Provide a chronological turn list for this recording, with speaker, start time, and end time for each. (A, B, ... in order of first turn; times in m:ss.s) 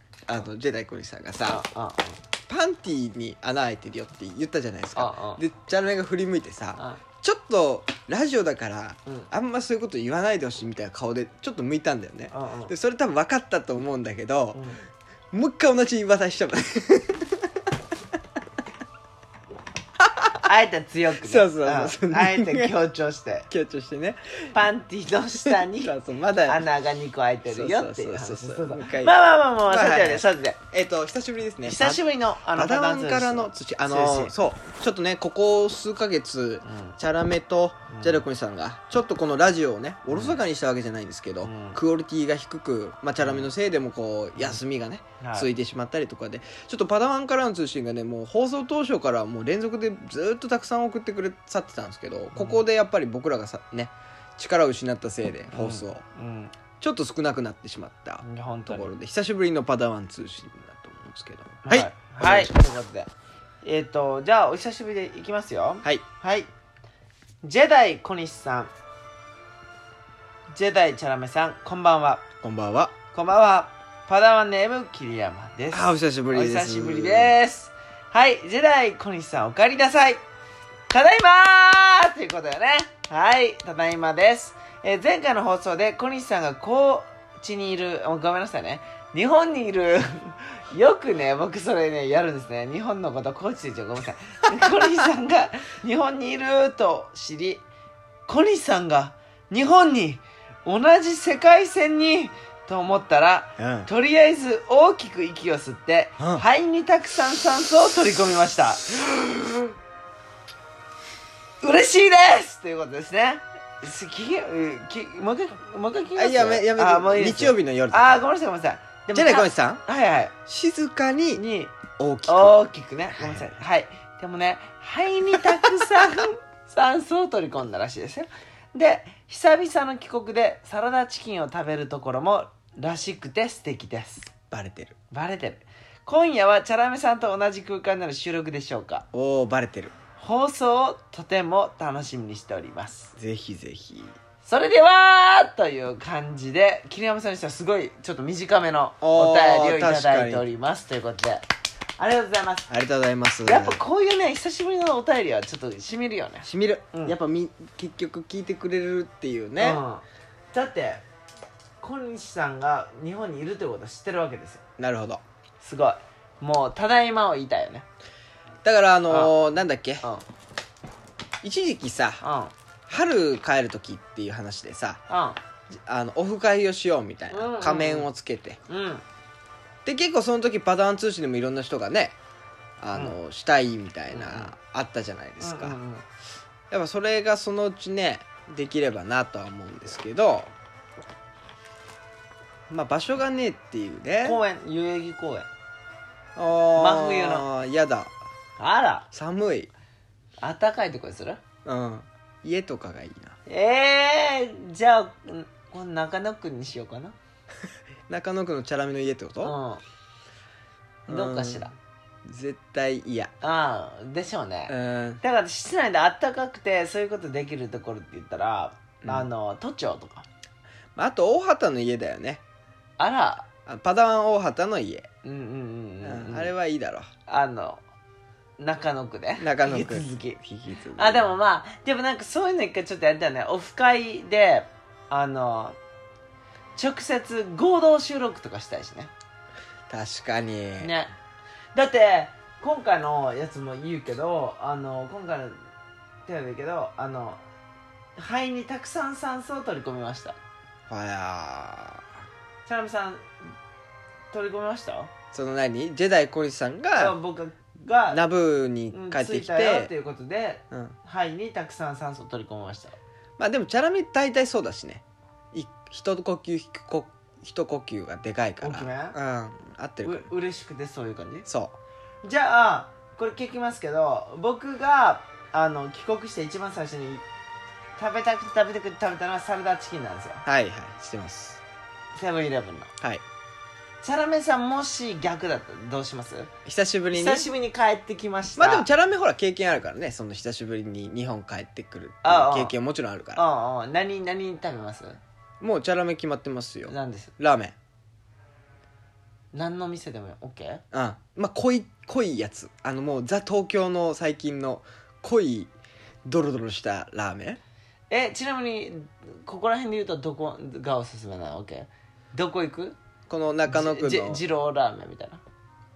0:00.3-0:01.6 A
0:01.5-0:02.2 B
0:02.5-0:14.7 A
0:05.0-0:05.4 B
0:12.3-0:12.7 B
0:14.5-0:14.8 B
0:15.3-0:17.7 A
0:20.0-0:20.5 A
0:20.4-0:23.5 B
0:21.2-0:22.7 A
0:23.5-0:24.5 A
0:24.5-0:25.9 B
0:25.5-0:26.6 A
0:26.5-0:30.6 B
0:27.5-0:56.0 A
0:31.6-0:34.3 B
0:36.6-0:37.0 B
0:37.9-0:38.2 B
0:40.1-0:40.4 B
0:41.4-0:41.8 B
0:43.2-0:43.5 B
0:45.2-0:45.5 B
0:52.3-0:52.6 B
0:55.5-0:56.5 B
0:56.8-1:02.5 A
0:58.2-0:58.9 B
1:01.6-1:03.1 B
1:03.6-1:06.5 B
1:07.4-1:08.7 B
1:10.5-1:12.2 B
1:12.4-1:12.9 A
1:13.1-1:20.2 B
1:15.7-1:17.4 A
1:20.9-1:37.6 B
1:38.3-1:49.7 B
1:43.6-1:43.9 A
1:51.6-2:00.3 B
1:56.2-1:58.2 A
1:59.1-1:59.8 A
2:00.5-2:01.4 A
2:01.4-2:01.7 B
2:02.0-2:02.6 A
2:02.3-2:14.3 B
2:03.2-2:03.5 A
2:05.6-2:06.2 A
2:14.5-2:15.0 A
2:15.1-2:19.1 B
2:19.1-2:19.9 A
2:20.2-2:23.1 B
2:23.2-2:24.2 A
2:24.4-2:31.4 B
2:29.0-2:30.4 A
2:32.0-2:32.7 B
2:32.7-2:33.8 A
2:33.5-2:37.2 B
2:36.4-2:39.8 A
2:39.6-2:41.0 B
2:41.8-2:44.6 B
2:44.8-2:45.2 A
2:45.6-2:47.8 B
2:48.6-2:50.0 A
2:51.4-2:52.2 A
2:52.2-2:52.5 B
2:52.9-2:55.0 A
2:55.1-2:55.4 B
2:55.7-2:58.6 A
2:57.3-2:58.1 B
2:58.7-2:59.0 B
2:59.8-3:02.2 A
3:02.8-3:05.8 A
3:04.1-3:04.5 B
3:05.4-3:06.0 B
3:06.7-3:10.5 A
3:12.7-3:14.4 A
3:14.2-3:15.5 B
3:16.4-3:18.2 A
3:16.8-3:17.5 B
3:18.6-3:19.1 B
3:19.1-3:19.7 A
3:20.4-3:21.4 B
3:21.6-3:23.4 A
3:23.5-3:27.2 B
3:28.1-3:29.6 A
3:29.4-3:29.8 B
3:31.1-3:31.7 A
3:31.1-3:31.7 B
3:32.2-3:33.3 A
3:33.4-3:40.3 B
3:34.7-3:35.2 A
3:41.0-3:42.4 A
3:43.0-3:43.5 B
3:43.7-3:45.1 A
3:45.2-3:46.5 B
3:46.0-3:47.1 A
3:47.3-3:47.8 B
3:48.6-3:50.4 B
3:49.4-3:51.3 A
3:51.0-3:55.8 B
3:56.8-3:59.1 B
3:59.9-4:00.9 A
4:00.8-4:01.1 B
4:01.8-4:05.6 B
4:06.3-4:07.4 B
4:08.2-4:10.4 B
4:10.9-4:12.0 A
4:12.7-4:13.3 B
4:14.3-4:15.1 B
4:15.3-4:17.2 A
4:17.0-4:18.2 B
4:18.1-4:19.9 A
4:18.9-4:23.0 B
4:20.7-4:21.0 A
4:23.4-4:30.3 A
4:28.6-4:29.2 B
4:30.0-4:31.5 B
4:31.5-4:31.8 A
4:32.2-4:37.2 B
4:38.0-4:40.4 B
4:40.4-4:41.6 A
4:42.2-4:42.9 B
4:44.0-4:46.5 B
4:46.7-4:47.5 A
4:47.1-4:48.9 B
4:48.6-4:53.4 A
4:52.2-4:52.7 B
4:53.4-4:55.2 B
4:55.6-4:57.8 A
4:56.9-4:57.3 B
4:59.5-5:00.8 B
5:00.9-5:05.7 A
5:06.2-5:07.6 A
5:08.1-5:13.0 B
5:13.3-5:14.4 A
5:13.7-5:15.4 B